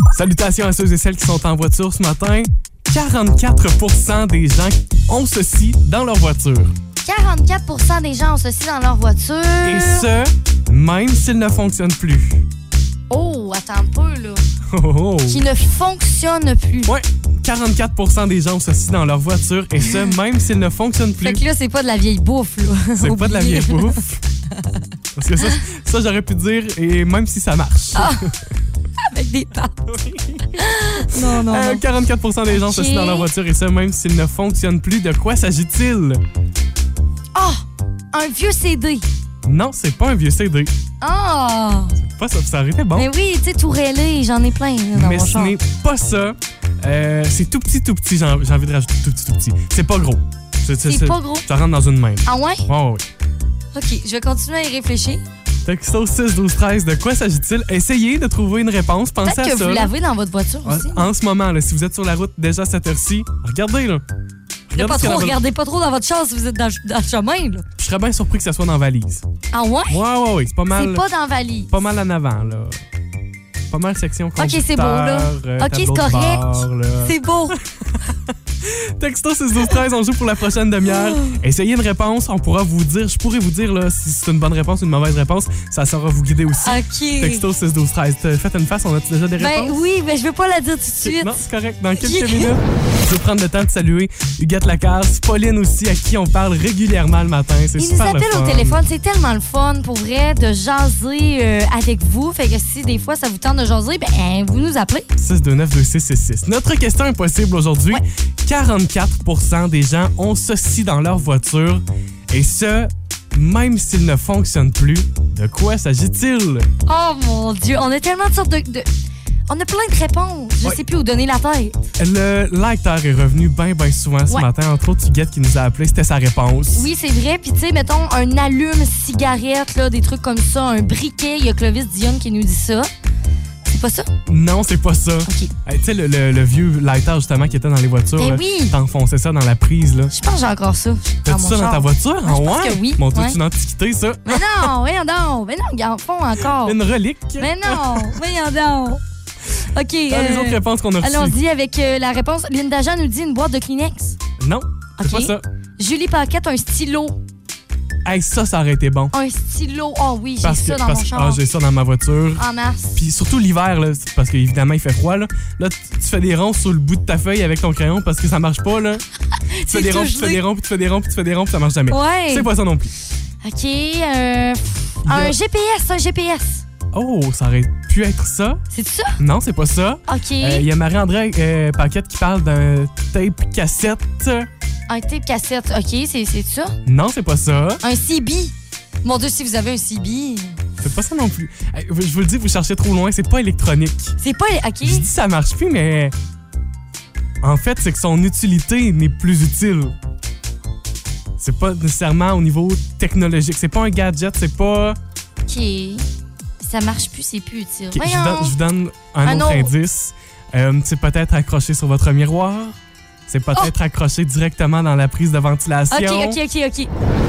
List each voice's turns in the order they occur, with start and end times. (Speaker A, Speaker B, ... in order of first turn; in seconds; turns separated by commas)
Speaker A: 0.1-6.7, Speaker B: 7.0-10.1, Speaker A: 9.6-12.4, Speaker B: 13.1-14.4, Speaker A: 14.7-15.4, Speaker B: 15.3-16.9, Speaker A: 16.9-21.4, Speaker B: 21.2-24.0, Speaker A: 23.0-24.2, Speaker A: 25.1-28.2, Speaker B: 27.9-28.3, Speaker B: 29.0-29.9, Speaker A: 29.9-36.2, Speaker B: 30.5-31.8, Speaker B: 32.5-33.3, Speaker B: 37.3-39.0, Speaker A: 39.4-40.7, Speaker B: 41.0-42.0, Speaker A: 42.0-43.1, Speaker B: 42.9-45.5, Speaker A: 44.9-53.0, Speaker B: 50.9-51.5, Speaker B: 52.2-52.6, Speaker B: 53.7-55.2, Speaker A: 55.6-59.9, Speaker B: 59.2-61.1, Speaker A: 60.6-64.0, Speaker A: 64.7-65.4, Speaker B: 64.8-67.7, Speaker A: 67.8-69.2, Speaker B: 69.5-70.0, Speaker A: 69.9-71.0, Speaker B: 70.7-71.7, Speaker A: 71.7-72.8, Speaker A: 73.7-89.8, Speaker B: 74.4-77.6, Speaker B: 80.8-81.4, Speaker B: 86.6-87.4, Speaker B: 89.4-91.3, Speaker A: 91.0-98.8, Speaker B: 92.0-92.5, Speaker B: 97.8-105.1, Speaker A: 105.2-116.7, Speaker B: 116.9-118.8, Speaker B: 119.5-121.8, Speaker A: 122.0-126.9, Speaker B: 126.7-132.9, Speaker B: 133.7-134.1, Speaker A: 134.3-140.1, Speaker B: 135.2-135.5, Speaker B: 138.2-138.7, Speaker B: 140.1-143.4, Speaker A: 141.2-144.7, Speaker B: 144.2-146.8, Speaker A: 146.6-148.2, Speaker B: 147.4-149.0, Speaker B: 149.6-154.2, Speaker A: 150.1-151.4, Speaker A: 154.4-155.4, Speaker B: 155.0-157.2, Speaker A: 158.0-159.1, Speaker B: 159.1-161.4, Speaker A: 160.4-169.0, Speaker B: 162.4-163.0, Speaker B: 169.5-170.4, Speaker A: 169.7-172.9, Speaker B: 171.9-172.5, Speaker B: 173.4-176.6, Speaker A: 175.0-175.3, Speaker A: 176.9-178.6, Speaker B: 178.7-179.2, Speaker A: 179.2-184.5, Speaker B: 180.1-180.7, Speaker B: 184.9-186.8, Speaker A: 186.8-187.8, Speaker B: 187.8-188.5, Speaker B: 189.0-190.6, Speaker A: 190.8-194.2, Speaker B: 194.2-195.1, Speaker A: 194.8-196.1, Speaker A: 197.4-199.9, Speaker A: 201.4-205.0, Speaker B: 205.5-206.1, Speaker B: 206.6-208.6, Speaker A: 207.9-212.8, Speaker B: 209.2-209.7, Speaker A: 213.3-216.4, Speaker B: 215.9-216.9